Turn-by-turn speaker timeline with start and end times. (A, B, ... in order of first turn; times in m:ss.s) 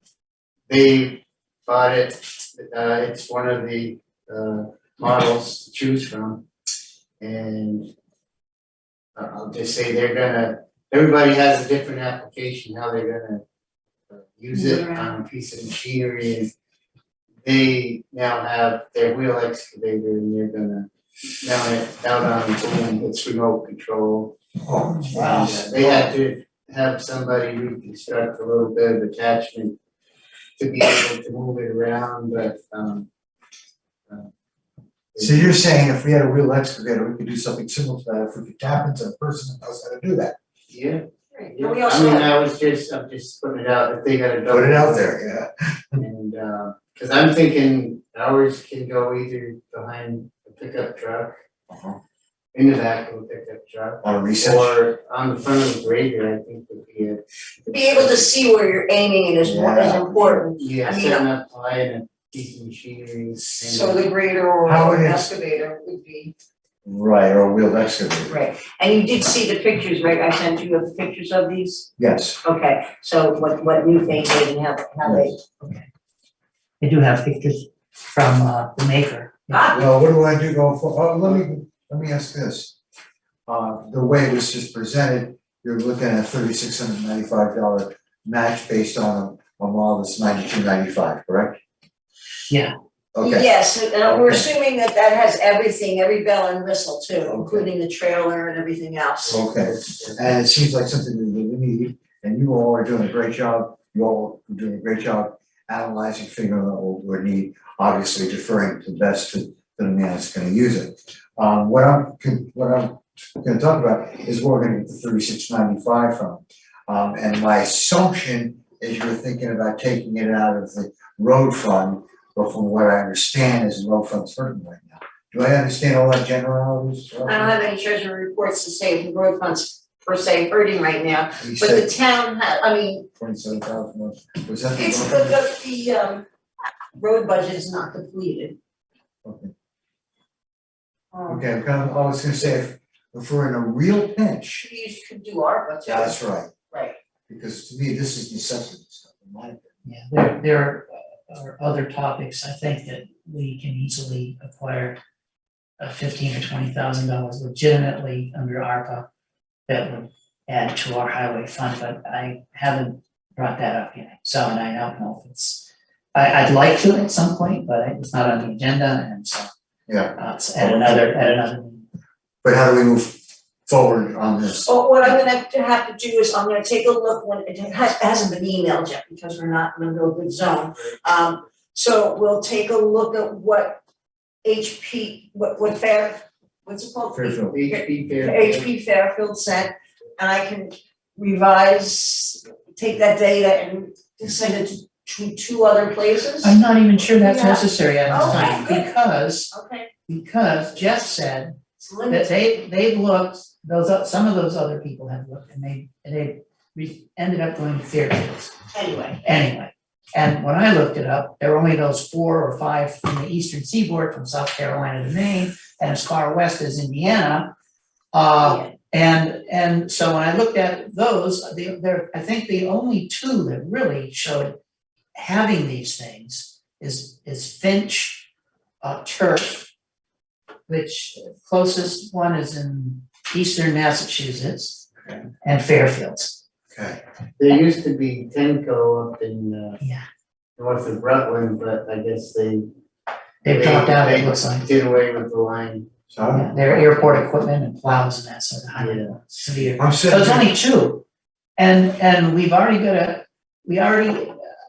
0:00.7-0:06.4 A
0:07.2-0:07.9 A
0:09.2-0:13.4 A
0:14.1-0:16.5 A
0:14.5-0:15.2 B
0:17.4-0:20.9 A
0:21.4-0:24.4 A
0:24.6-0:26.1 C
0:25.0-0:25.6 D
0:25.1-0:29.8 A
0:30.6-0:33.1 A
0:35.1-0:35.6 A
0:35.2-0:40.3 C
0:40.7-0:45.1 A
0:41.3-0:42.4 B
0:44.5-0:46.0 C
0:46.0-0:51.4 A
0:51.7-0:52.0 C
0:52.5-0:58.3 A
0:54.0-0:54.8 C
0:57.6-1:01.3 B
0:59.4-1:00.4 C
1:00.6-1:04.0 A
1:03.5-1:06.3 B
1:04.6-1:05.3 C
1:06.8-1:08.4 C
1:08.3-1:11.9 B
1:12.0-1:12.4 C
1:12.4-1:15.4 B
1:15.0-1:15.3 C
1:16.8-1:19.6 D
1:19.5-1:19.8 B
1:19.7-1:22.8 C
1:23.5-1:31.6 C
1:32.5-1:32.7 D
1:33.1-1:34.5 C
1:33.2-1:39.4 B
1:37.2-1:37.7 C
1:39.2-1:40.2 A
1:39.3-2:07.6 C
2:07.3-2:13.1 B
2:11.4-2:11.9 C
2:13.2-2:15.4 C
2:14.7-2:16.2 B
2:17.0-2:18.6 B
2:19.2-2:19.5 C
2:21.1-2:21.4 B
2:21.3-2:24.7 C
2:24.6-2:26.2 B
2:25.8-2:26.5 C
2:26.7-2:27.0 B
2:27.3-2:29.8 C
2:29.8-2:35.0 D
2:35.8-2:39.0 D
2:39.7-2:49.5 D
2:49.9-2:51.0 C
2:50.2-2:51.8 D
2:52.4-2:55.1 C
2:54.6-3:03.8 B
3:04.4-3:16.6 B
3:07.1-3:07.6 C
3:07.5-3:08.7 A
3:16.4-3:19.5 D
3:17.1-3:18.9 B
3:18.2-3:18.5 A
3:19.5-3:19.9 B
3:20.1-3:21.6 D
3:21.8-3:22.3 B
3:22.1-3:28.5 D
3:28.7-3:29.2 B
3:29.2-3:37.5 D
3:38.1-3:44.5 D
3:38.4-3:38.7 B
3:45.1-3:48.3 D
3:48.8-3:49.7 D
3:50.7-3:54.8 D
3:55.0-3:55.3 C
3:55.4-3:56.4 D
3:56.7-3:57.0 C
3:57.4-3:59.8 A
4:00.6-4:02.7 A
4:03.4-4:04.6 D
4:03.4-4:05.9 A
4:06.1-4:06.5 C
4:06.3-4:11.0 D
4:08.7-4:09.3 A
4:09.8-4:10.5 C
4:11.6-4:14.4 D